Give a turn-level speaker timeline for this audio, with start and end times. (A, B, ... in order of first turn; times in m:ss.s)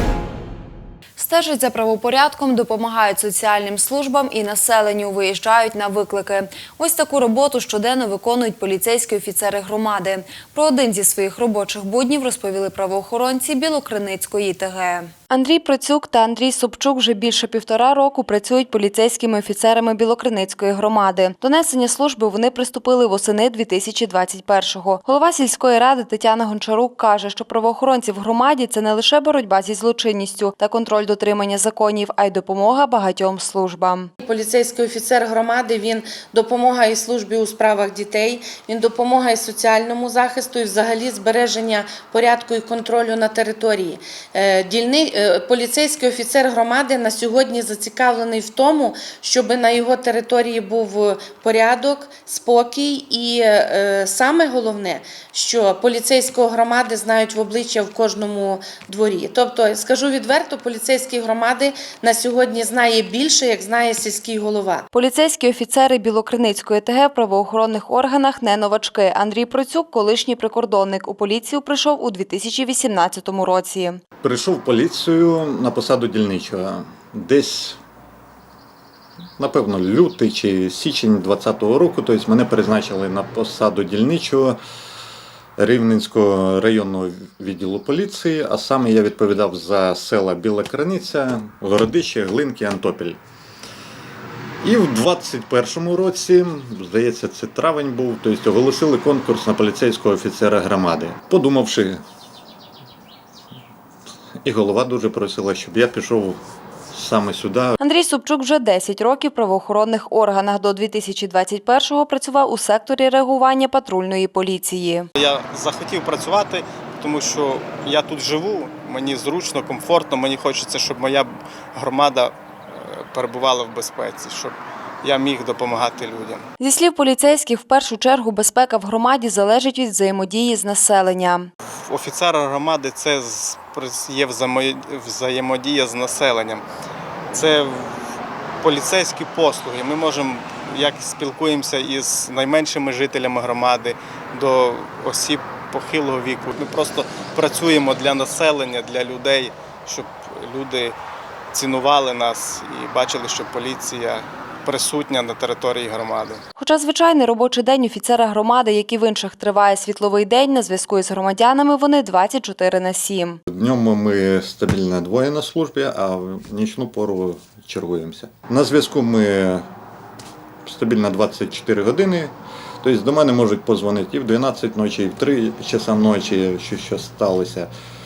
0:01.2-0:15.1 A
0:15.3-0:34.1 B
0:34.2-1:04.8 C
1:04.9-1:14.0 B
1:14.2-1:17.8 D
1:19.4-1:24.6 D
1:25.6-1:33.2 D
1:34.6-1:42.0 D
1:44.4-1:46.4 D
1:46.9-1:47.8 D
1:47.8-1:55.1 B
1:55.2-2:06.4 E
2:06.6-2:11.5 B
2:11.7-2:16.6 E
2:17.3-2:31.0 E
2:31.5-2:36.4 E
2:36.6-2:43.4 B
2:43.5-2:49.7 D
2:50.6-2:57.7 D